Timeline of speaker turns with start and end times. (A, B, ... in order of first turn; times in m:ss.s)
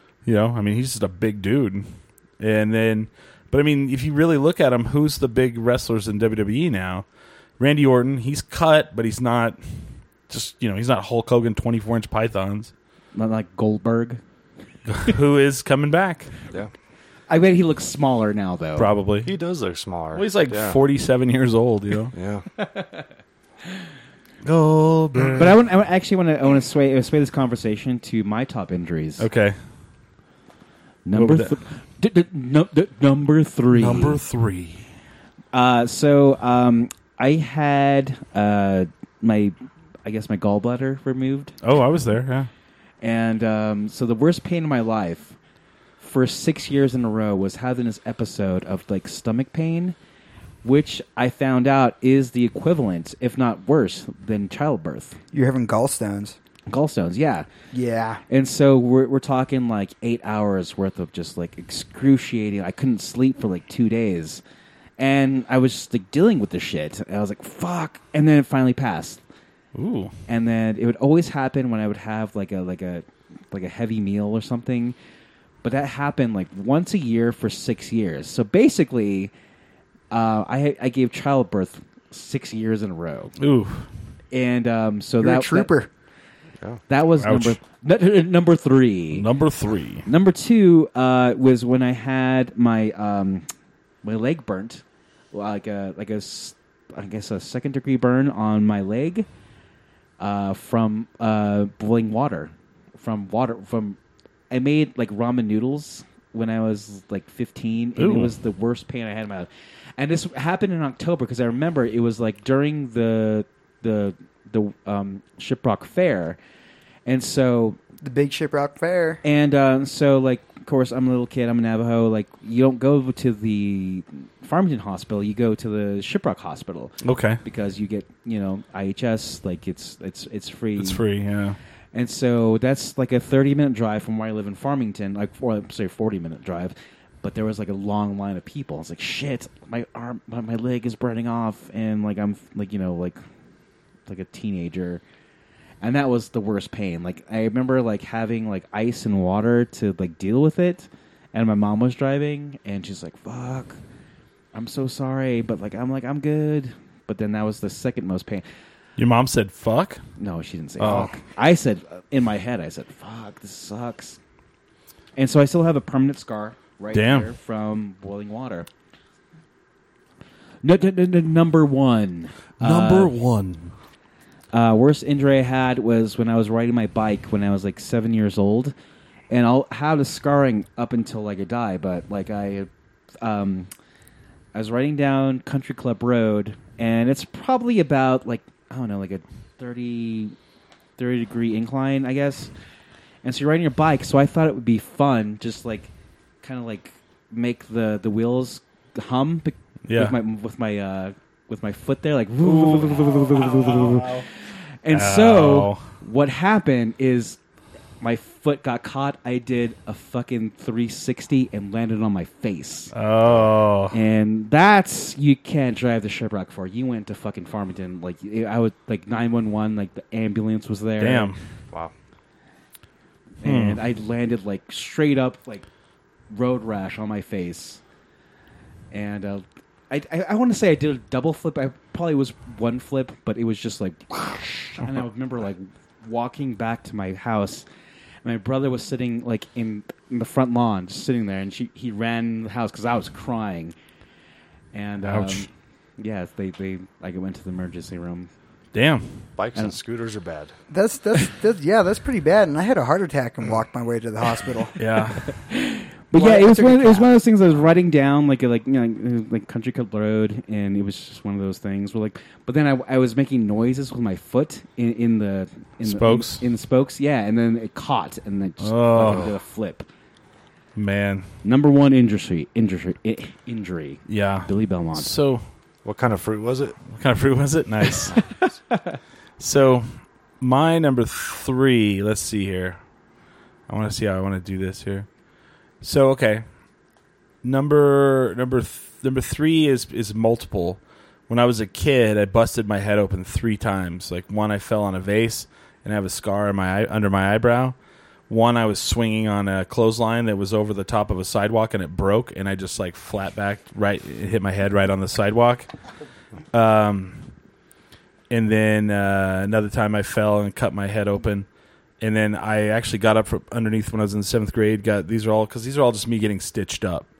0:00.2-0:01.8 A
0:02.4-0:07.0 A
0:07.6-0:09.6 A
0:10.3-0:12.7 A
0:13.1-0:14.2 B
0:14.9-0:16.3 A
0:17.3-0:18.9 B
0:18.8-0:19.3 A
0:19.2-0:20.8 C
0:20.1-0:22.1 A
0:22.1-0:22.4 C
0:22.6-0:23.0 B
0:24.4-0:25.5 A
0:25.3-0:29.3 B
0:29.2-0:29.6 A
0:31.0-0:34.2 B
0:31.1-0:31.5 A
0:33.7-0:34.8 A
0:35.5-0:41.6 B
0:41.6-0:42.5 A
0:43.0-0:45.4 B
0:46.0-0:49.9 B
0:50.6-0:55.2 B
0:55.3-0:56.4 D
0:56.7-0:57.5 B
0:57.7-0:58.2 D
0:58.3-1:04.4 B
1:05.0-1:09.2 B
1:09.7-1:10.1 A
1:10.3-1:15.0 B
1:15.6-1:19.3 B
1:20.1-1:23.3 B
1:23.4-1:23.8 A
1:24.3-1:25.7 B
1:25.2-1:25.9 D
1:26.9-1:29.2 B
1:27.2-1:27.6 A
1:29.1-1:30.0 A
1:30.0-1:33.4 B
1:34.0-1:39.3 B
1:40.2-1:44.0 B
1:44.5-1:56.4 B
1:48.0-1:48.3 A
1:57.0-1:57.8 B
1:58.0-1:59.2 D
1:59.2-2:11.0 B
2:07.0-2:07.4 A
2:10.8-2:11.6 A
2:11.9-2:23.2 B
2:24.1-2:25.0 B
2:25.8-2:33.8 B
2:34.5-2:38.4 B
2:39.0-2:40.0 A
2:40.2-2:44.2 B
2:40.8-2:41.1 A
2:45.2-2:48.7 B
2:46.9-2:47.3 A
2:50.6-2:53.1 B
2:52.6-2:53.7 A
2:54.5-2:58.7 B
2:59.3-3:02.7 B
3:03.2-3:03.7 B
3:04.5-3:10.4 B
3:11.0-3:12.5 B
3:13.2-3:15.9 B
3:16.4-3:27.4 B
3:19.9-3:20.1 A
3:22.4-3:24.2 A
3:24.9-3:25.8 A
3:28.0-3:32.9 B
3:32.9-3:33.9 A
3:33.9-3:41.3 B
3:41.0-3:41.4 A
3:43.4-3:45.6 B
3:43.4-3:43.8 A
3:46.3-3:47.8 B
3:48.9-3:57.6 B
3:58.2-4:03.7 B
4:04.7-4:08.3 B
4:05.0-4:05.4 A
4:08.7-4:09.2 A
4:09.4-4:10.5 C
4:10.7-4:14.8 D
4:14.8-4:15.3 A
4:15.3-4:29.8 B
4:16.1-4:17.1 D
4:25.8-4:26.4 A
4:28.6-4:29.3 A
4:30.8-4:31.3 A
4:31.4-4:35.1 B
4:34.1-4:35.4 A
4:35.8-4:36.8 C
4:36.9-4:38.2 A
4:39.4-4:42.8 A
4:43.7-4:45.1 A
4:45.8-4:46.4 A
4:47.4-4:57.7 A
4:58.3-5:05.7 A
5:06.5-5:07.3 A
5:08.3-5:11.4 A
5:12.0-5:17.0 A